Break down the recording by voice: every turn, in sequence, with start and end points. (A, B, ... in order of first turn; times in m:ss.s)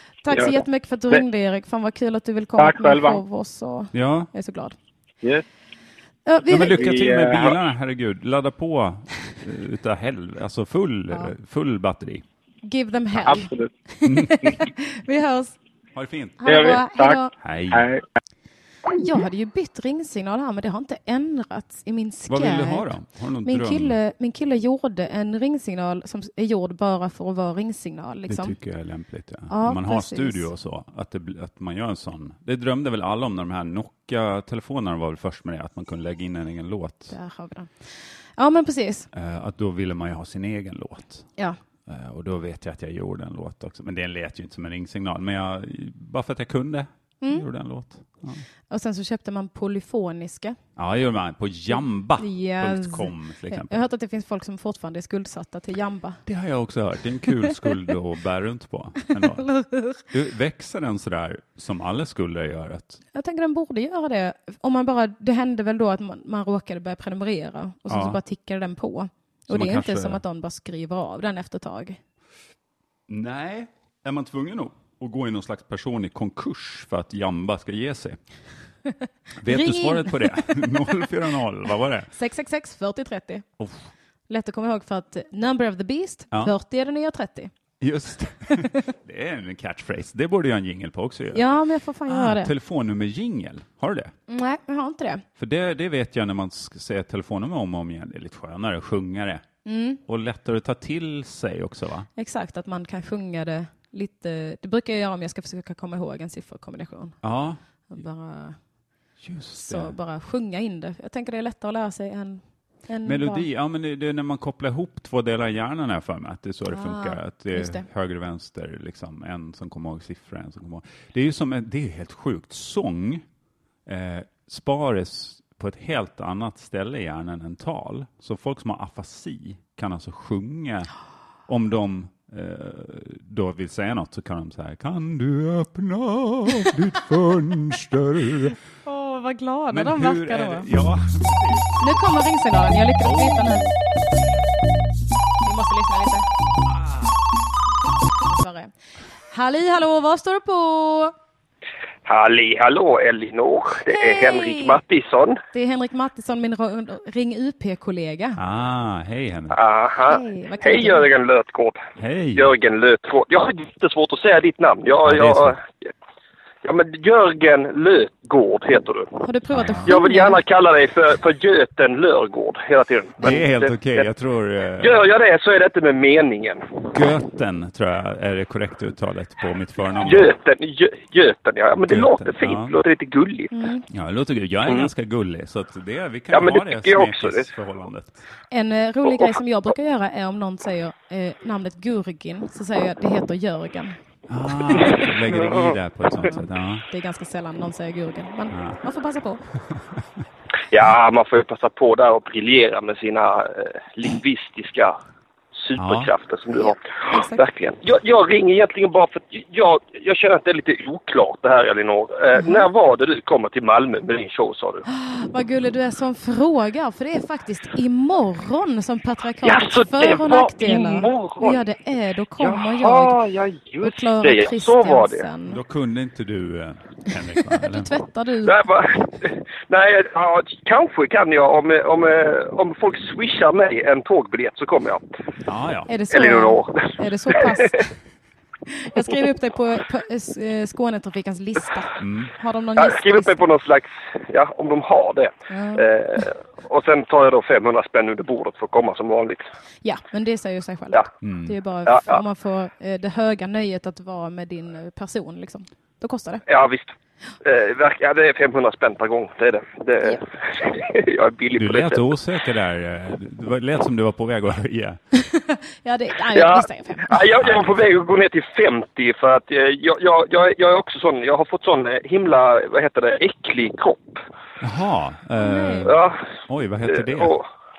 0:00.2-0:04.7 A
0:00.3-0:01.2 B
0:02.6-0:03.2 B
0:03.9-0:04.3 C
0:06.2-0:06.8 A
0:06.5-0:12.2 C
0:06.7-0:07.6 B
0:12.6-0:15.6 A
0:13.2-0:13.7 B
0:14.0-0:14.5 C
0:15.9-0:16.5 C
0:16.4-0:17.3 A
0:16.5-0:17.2 B
0:17.4-0:17.9 C
0:17.7-0:18.0 B
0:18.9-0:22.9 A
0:22.3-0:24.0 C
0:23.4-0:28.6 A
0:28.3-0:37.1 C
0:29.5-0:30.5 A
0:37.1-0:39.1 A
0:39.1-0:41.3 C
0:41.9-0:48.4 C
0:47.2-0:47.5 A
0:48.7-0:50.6 A
0:50.8-0:53.8 C
0:52.2-0:56.2 A
0:56.2-0:59.4 C
0:59.1-1:00.1 A
1:00.1-1:03.0 C
1:03.1-1:12.0 A
1:07.9-1:08.2 C
1:09.5-1:10.2 C
1:13.1-1:18.2 C
1:19.4-1:22.1 C
1:19.5-1:20.6 A
1:22.1-1:23.4 A
1:24.3-1:27.5 A
1:27.8-1:31.5 C
1:28.5-1:28.7 A
1:31.3-1:32.5 A
1:32.1-1:34.1 C
1:34.3-1:35.2 A
1:35.4-1:39.4 C
1:39.6-1:40.0 A
1:40.0-1:42.1 C
1:42.2-1:47.2 A
1:47.2-1:47.6 C
1:47.9-1:48.6 A
1:49.2-1:49.9 C
1:49.5-1:53.5 A
1:53.0-2:03.2 C
1:56.7-1:57.8 A
2:03.8-2:10.9 C
2:11.5-2:18.6 C
2:18.8-2:20.7 A
2:19.7-2:22.0 C
2:21.8-2:23.7 A
2:23.1-2:23.6 C
2:25.4-2:26.3 A
2:26.6-2:27.2 C
2:28.2-2:28.7 A
2:29.3-2:31.1 A
2:32.0-2:35.4 D
2:33.9-2:34.8 A
2:35.5-2:38.4 A
2:38.4-2:39.6 C
2:39.5-2:41.8 D
2:40.1-2:41.1 A
2:42.0-2:42.5 C
2:42.4-2:45.9 D
2:45.0-2:45.6 C
2:46.6-2:49.1 D
2:49.2-2:50.4 A
2:49.5-2:49.9 C
2:49.8-2:54.0 D
2:53.2-2:55.0 C
2:54.8-2:56.9 D
2:56.9-3:00.3 C
3:00.0-3:03.5 D
3:01.8-3:02.8 C
3:03.5-3:03.8 A
3:03.9-3:08.2 C
3:06.3-3:07.5 D
3:08.5-3:14.0 A
3:14.3-3:16.8 C
3:14.8-3:15.7 D
3:16.3-3:19.4 A
3:18.5-3:18.8 C
3:19.7-3:20.0 C
3:20.7-3:25.0 D
3:25.5-3:34.8 D
3:25.8-3:26.1 C
3:26.6-3:27.4 A
3:32.4-3:32.6 A
3:34.8-3:43.2 A
3:39.4-3:41.6 D
3:42.4-3:45.3 D
3:43.8-3:45.6 A
3:45.4-3:47.9 C
3:47.5-3:48.6 A
3:48.4-3:55.0 D
3:55.4-3:55.9 C
3:55.9-3:57.9 A
3:56.1-3:57.8 D
3:58.7-4:03.4 A
4:02.0-4:02.3 C
4:02.8-4:09.4 D
4:05.5-4:05.8 A
4:09.8-4:16.4 A
4:11.2-4:11.6 C
4:11.9-4:12.2 D
4:16.5-4:22.0 D
4:21.6-4:25.0 C
4:25.1-4:27.2 A
4:26.3-4:34.2 D
4:27.4-4:27.8 C
4:34.6-4:37.4 C
4:35.4-4:35.9 A
4:35.8-4:36.2 D
4:36.9-4:37.5 D